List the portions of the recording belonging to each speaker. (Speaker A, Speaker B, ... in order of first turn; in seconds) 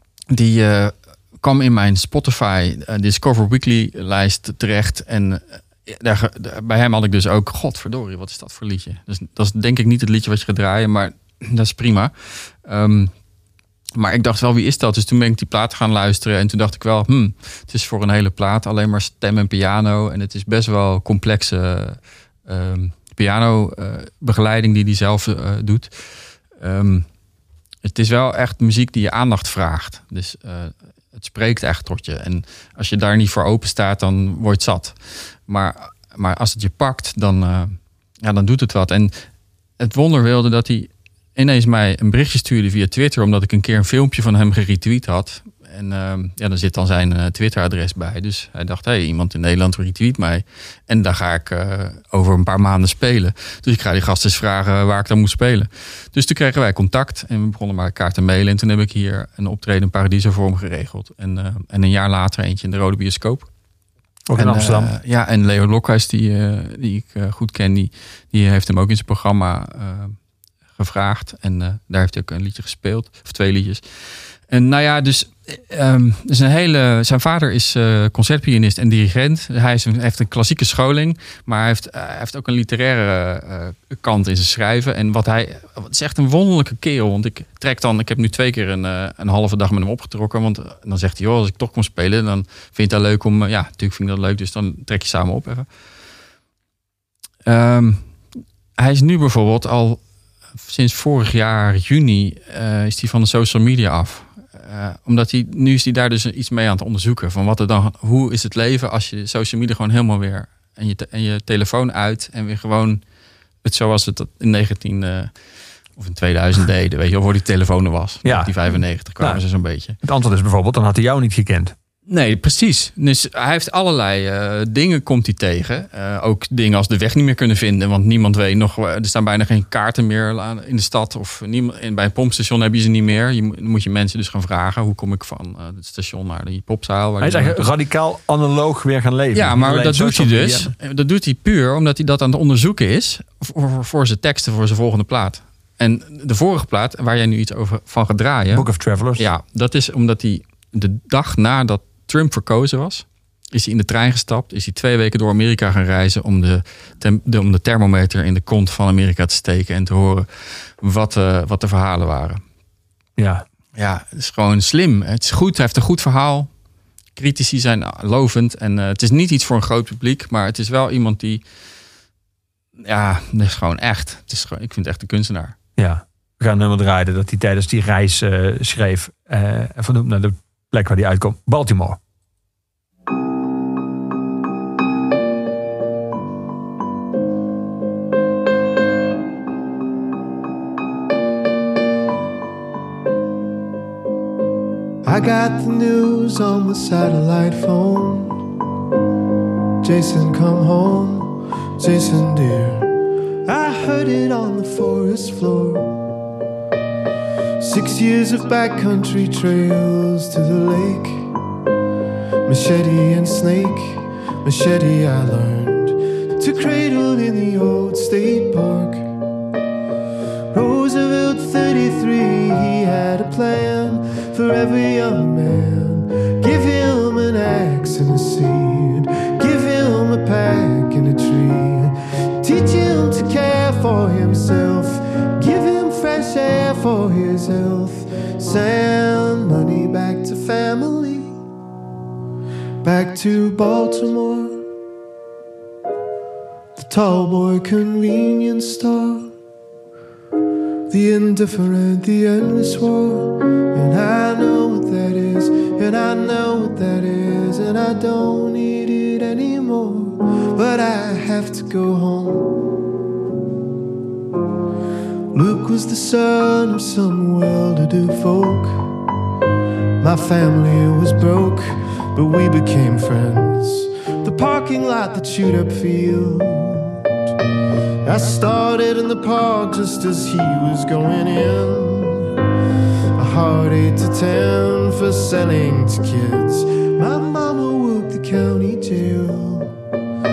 Speaker A: 0.3-13.1, 13.9-25.9, 26.6-27.1, 27.8-39.1, 39.8-63.5, 64.3-70.2, 70.8-73.8, 74.5-95.7, 97.5-98.0, 98.8-100.0, 100.6-113.0, 113.6-115.3, 116.0-120.0, 122.1-137.6, 139.3-148.6, 149.2-162.4, 163.7-166.5, 167.2-171.4, 172.8-175.6
Speaker B: 64.3-64.9, 118.2-118.5, 120.0-121.7, 137.2-140.7, 148.5-149.2, 163.2-163.4, 175.8-182.0
Speaker C: 195.0-198.4, 199.8-202.9, 203.5-205.9, 207.6-211.3, 212.5-219.0, 220.5-231.9, 232.4-241.3, 242.8-244.6, 246.8-249.3, 250.9-262.5, 265.3-268.8, 270.0-277.0, 278.1-282.3, 283.2-289.7